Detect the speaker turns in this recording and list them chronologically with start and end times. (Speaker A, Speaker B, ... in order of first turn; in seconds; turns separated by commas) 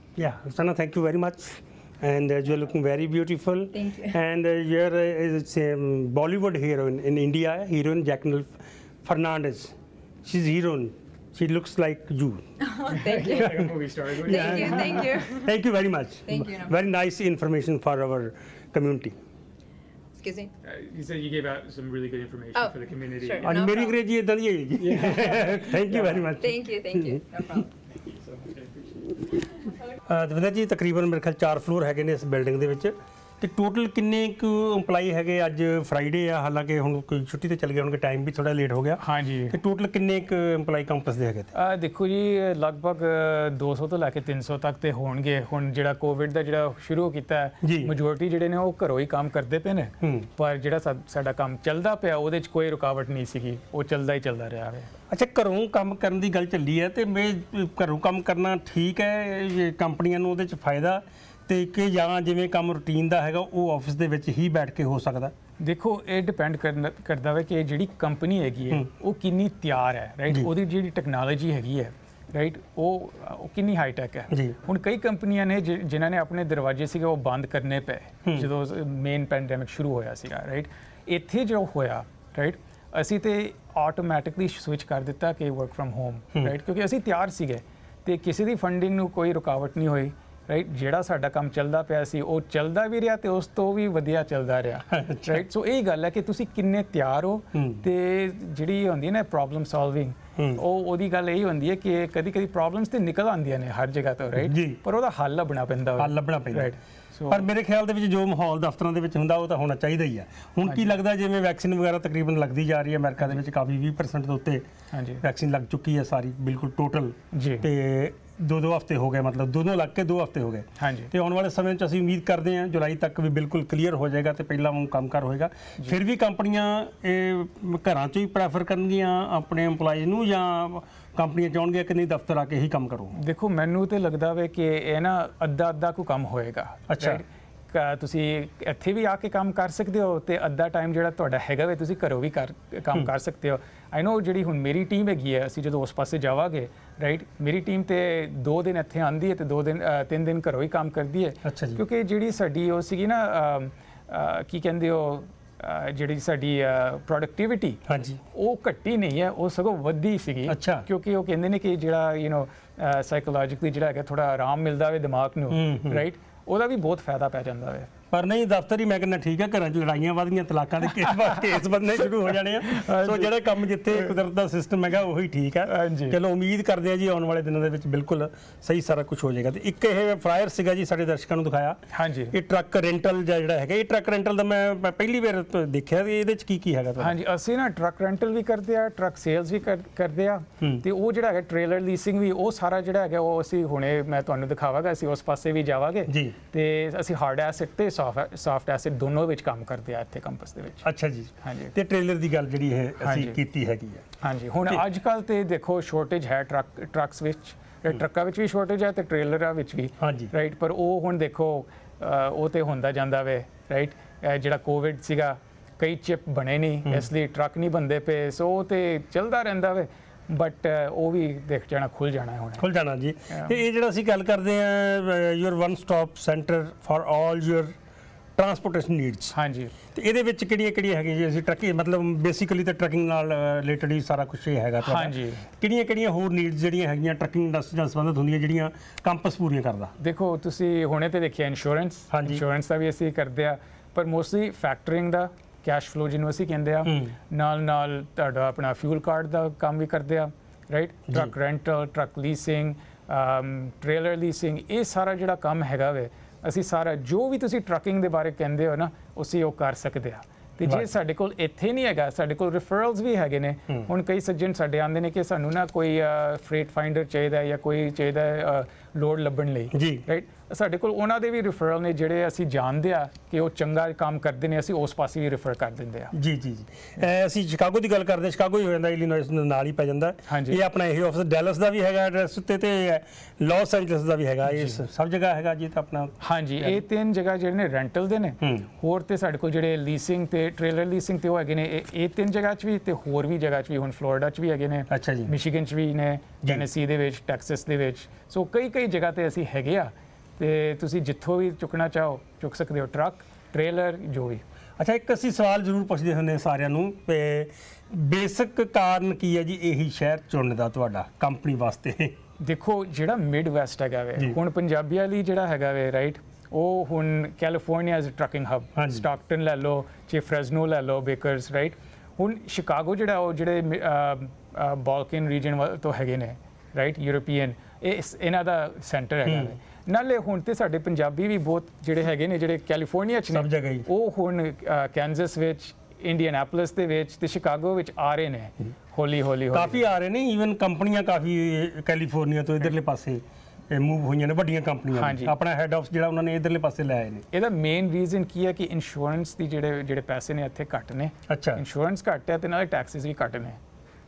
Speaker A: 0.2-12.5, Speaker B: 3.7-4.2, Speaker B: 12.6-15.6, Speaker C: 12.9-15.2, Speaker A: 13.2-13.7, Speaker A: 14.2-19.2, Speaker B: 16.3-16.8, Speaker B: 20.2-20.5, Speaker C: 20.6-23.6, Speaker B: 22.6-24.0, Speaker A: 23.4-27.2, Speaker C: 24.8-26.4, Speaker B: 26.4-27.7, Speaker C: 28.0-29.4, Speaker A: 30.0-41.5, Speaker C: 39.0-39.6, Speaker C: 41.5-54.9, Speaker A: 47.6-47.9, Speaker A: 50.0-50.3, Speaker A: 55.1-65.3, Speaker C: 65.6-107.5, Speaker A: 74.3-74.6, Speaker A: 94.9-95.4, Speaker A: 97.5-97.8, Speaker A: 100.4-100.6, Speaker A: 104.4-104.8, Speaker A: 106.0-106.7, Speaker A: 107.3-114.7, Speaker C: 114.9-115.2, Speaker A: 115.2-133.2, Speaker C: 117.3-117.7, Speaker C: 120.8-121.1, Speaker C: 133.2-167.9, Speaker A: 136.9-137.2, Speaker A: 151.4-151.8, Speaker A: 157.9-158.2, Speaker A: 160.5-160.9, Speaker A: 165.5-166.0, Speaker A: 168.1-187.2, Speaker C: 171.0-174.1, Speaker C: 175.7-176.2, Speaker C: 181.9-182.3, Speaker C: 187.0-200.8, Speaker A: 196.1-196.4, Speaker A: 200.8-204.1, Speaker C: 201.4-201.7, Speaker C: 203.0-203.4, Speaker C: 204.2-222.7, Speaker A: 210.0-210.3, Speaker A: 222.6-227.7, Speaker C: 223.3-223.6, Speaker A: 228.4-229.3, Speaker C: 229.3-229.7, Speaker A: 229.9-239.9, Speaker C: 234.8-235.5, Speaker C: 240.0-276.1, Speaker A: 242.1-242.4, Speaker A: 246.8-247.1, Speaker A: 269.7-270.0, Speaker A: 276.1-286.8, Speaker C: 280.3-280.6, Speaker C: 284.5-284.9, Speaker C: 286.2-304.4, Speaker A: 288.4-288.7, Speaker A: 294.9-295.3, Speaker A: 304.8-312.2, Speaker C: 312.4-339.8, Speaker A: 318.8-319.0, Speaker A: 329.3-329.6, Speaker A: 333.3-333.9, Speaker A: 339.5-347.3, Speaker C: 344.9-345.3, Speaker C: 347.3-353.6, Speaker A: 351.3-351.6